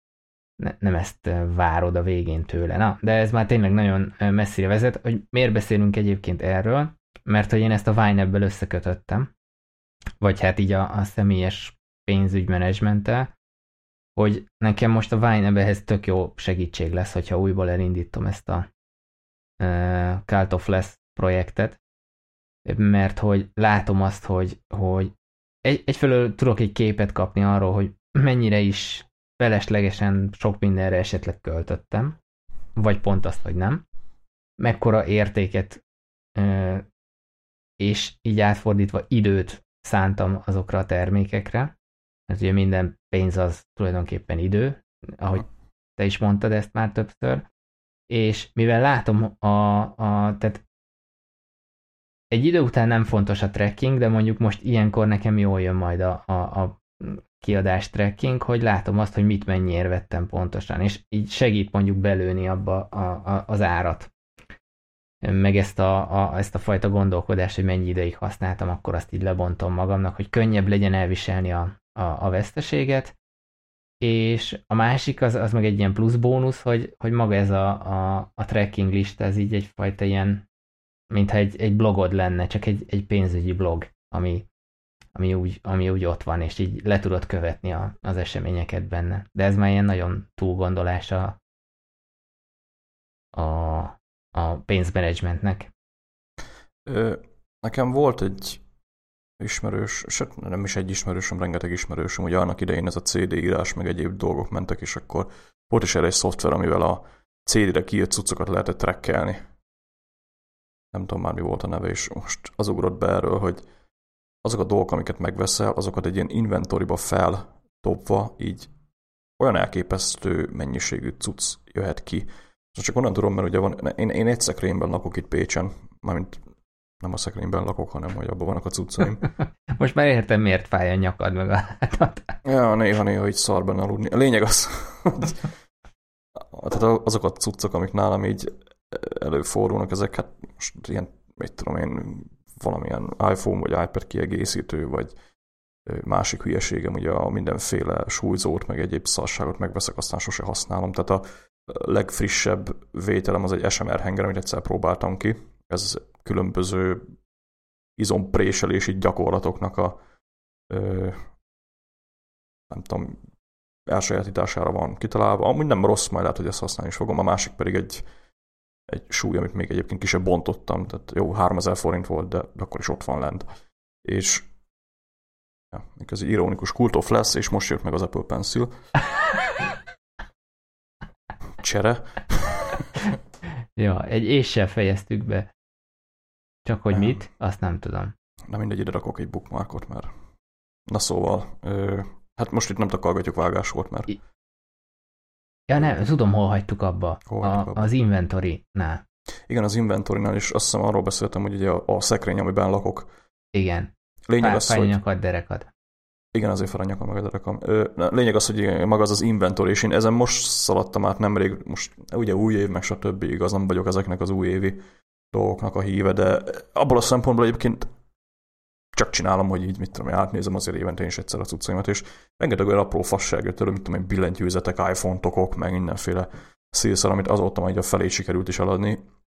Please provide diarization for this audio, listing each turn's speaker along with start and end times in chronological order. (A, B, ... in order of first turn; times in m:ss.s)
0:00.6-0:09.3 A
0:10.2-0:13.3 A
0:14.2-0:18.7 A
0:19.6-0:21.8 A
0:22.6-0:25.1 A
0:25.6-0:32.2 A
0:32.8-0:33.8 A
0:34.6-0:35.8 A
0:36.4-0:36.8 A
0:37.8-0:41.7 A
0:42.3-0:47.4 A
0:48.1-0:50.6 A
0:52.3-1:04.1 A
1:05.2-1:13.1 A
1:14.0-1:20.5 A
1:21.1-1:24.5 A
1:25.1-1:31.4 A
1:33.3-1:35.7 A
1:36.9-1:38.6 B
1:39.4-1:49.4 B
1:50.9-1:53.6 B
1:54.4-1:58.7 B
1:59.4-2:06.4 B
2:07.0-2:09.3 B
2:09.7-2:12.4 A
2:12.4-2:15.5 B
2:16.4-2:25.1 B
2:25.9-2:37.1 B
2:38.0-2:40.0 B
2:40.7-2:41.3 B
2:42.7-2:43.2 B
2:43.9-2:48.0 B
2:48.9-2:53.4 B
2:54.0-2:54.5 B
2:55.7-2:58.7 B
3:01.6-3:03.0 B
3:03.8-3:05.5 A
3:06.6-3:08.1 A
3:06.9-3:07.2 B
3:08.5-3:10.1 B
3:10.9-3:14.2 B
3:15.7-3:19.0 A
3:17.3-3:17.9 B
3:19.5-3:23.1 B
3:23.5-3:25.7 A
3:24.3-3:25.0 B
3:26.3-3:34.8 B
3:35.3-3:37.9 B
3:38.9-3:49.0 B